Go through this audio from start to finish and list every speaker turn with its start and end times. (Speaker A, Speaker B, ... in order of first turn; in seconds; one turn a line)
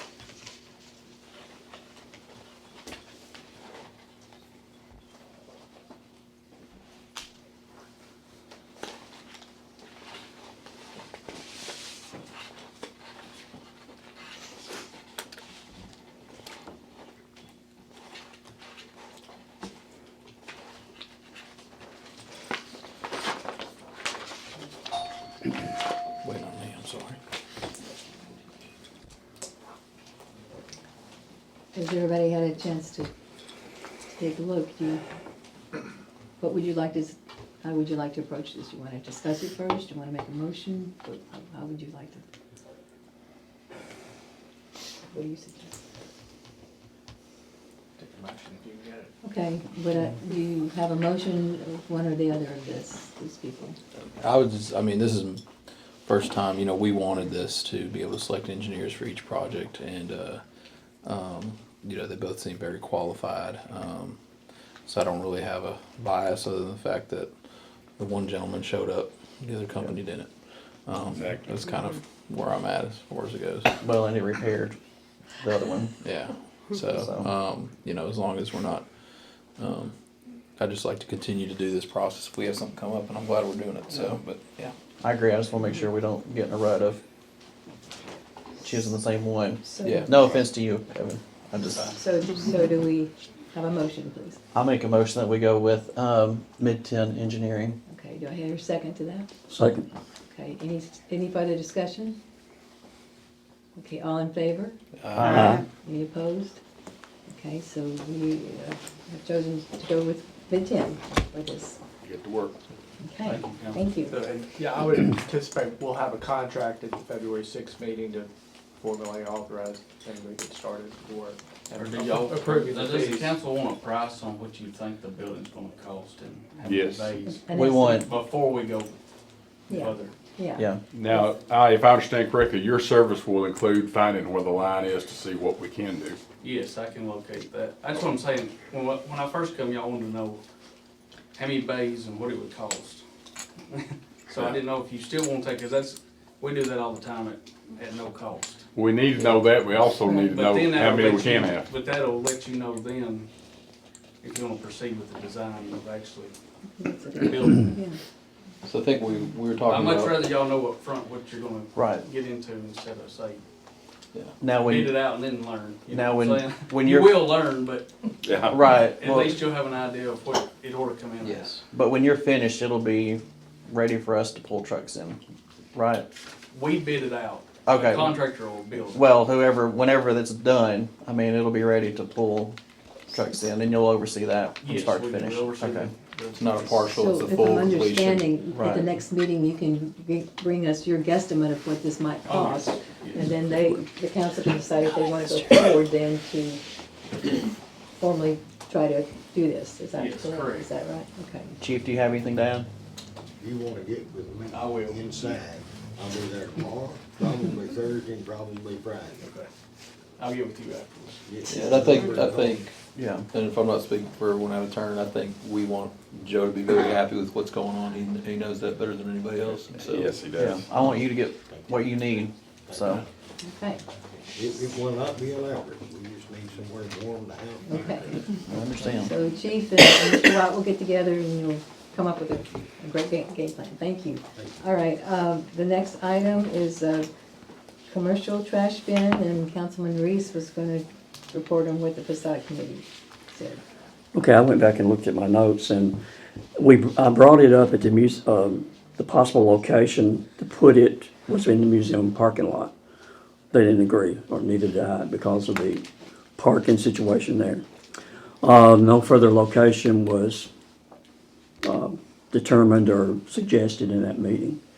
Speaker A: 26.2-27.2
Speaker B: 31.7-33.1
Speaker B: 34.1-35.0
Speaker B: 36.4-42.2
Speaker B: 45.1-45.8
Speaker C: 48.0-49.1
Speaker B: 49.2-53.8
Speaker A: 54.1-55.4
Speaker A: 56.1-60.4
Speaker A: 61.0-64.2
Speaker A: 64.9-67.3
Speaker A: 68.0-70.3
Speaker A: 70.9-73.8
Speaker D: 71.2-71.9
Speaker E: 73.8-74.8
Speaker E: 75.4-76.0
Speaker A: 76.0-78.8
Speaker E: 77.0-77.3
Speaker A: 79.6-79.9
Speaker A: 80.6-84.7
Speaker E: 85.0-87.0
Speaker E: 88.6-92.0
Speaker B: 89.6-90.1
Speaker A: 89.8-90.1
Speaker B: 91.9-94.4
Speaker E: 94.5-97.8
Speaker B: 97.9-99.3
Speaker F: 99.5-99.9
Speaker B: 100.3-102.2
Speaker B: 103.8-104.8
Speaker A: 105.0-105.6
Speaker E: 105.2-105.5
Speaker F: 105.3-105.6
Speaker B: 105.5-106.6
Speaker B: 107.3-111.8
Speaker D: 112.0-112.6
Speaker B: 113.0-114.2
Speaker G: 113.2-113.9
Speaker C: 114.1-123.4
Speaker G: 121.8-128.9
Speaker D: 126.7-127.2
Speaker B: 127.4-128.1
Speaker E: 127.6-128.1
Speaker B: 129.7-131.2
Speaker G: 129.7-130.1
Speaker E: 130.6-130.8
Speaker D: 130.9-136.2
Speaker G: 136.4-140.4
Speaker G: 141.3-143.0
Speaker G: 143.7-148.7
Speaker D: 148.8-151.7
Speaker B: 150.1-150.4
Speaker G: 150.3-153.3
Speaker G: 154.2-156.3
Speaker B: 156.8-158.0
Speaker G: 157.1-157.8
Speaker A: 158.6-160.3
Speaker G: 159.7-163.4
Speaker E: 161.8-162.1
Speaker E: 164.4-165.0
Speaker G: 164.6-168.1
Speaker E: 165.9-167.3
Speaker D: 168.2-168.6
Speaker E: 168.5-169.4
Speaker G: 168.7-171.6
Speaker A: 171.2-171.6
Speaker E: 171.7-175.2
Speaker E: 175.7-176.1
Speaker G: 176.5-179.0
Speaker E: 177.7-178.2
Speaker E: 178.9-182.6
Speaker E: 183.1-185.9
Speaker G: 184.6-186.8
Speaker A: 186.4-188.4
Speaker B: 186.9-196.6
Speaker E: 188.4-188.9
Speaker G: 192.2-193.3
Speaker B: 197.2-197.5
Speaker B: 198.0-201.6
Speaker G: 199.9-200.7
Speaker E: 201.6-202.7
Speaker H: 203.4-209.3
Speaker G: 204.5-205.3
Speaker G: 210.2-211.2
Speaker H: 211.2-212.7
Speaker A: 211.5-220.2
Speaker E: 212.9-213.3
Speaker D: 219.7-221.0
Speaker E: 220.4-223.1
Speaker H: 221.4-223.0
Speaker B: 223.4-223.8
Speaker H: 224.3-228.7
Speaker B: 227.7-237.1
Speaker E: 228.5-229.1
Speaker H: 234.3-234.6
Speaker B: 237.9-243.6
Speaker F: 244.1-246.0
Speaker F: 246.6-252.7
Speaker F: 253.5-255.8
Speaker F: 256.4-257.6
Speaker F: 258.4-260.5
Speaker F: 261.6-264.6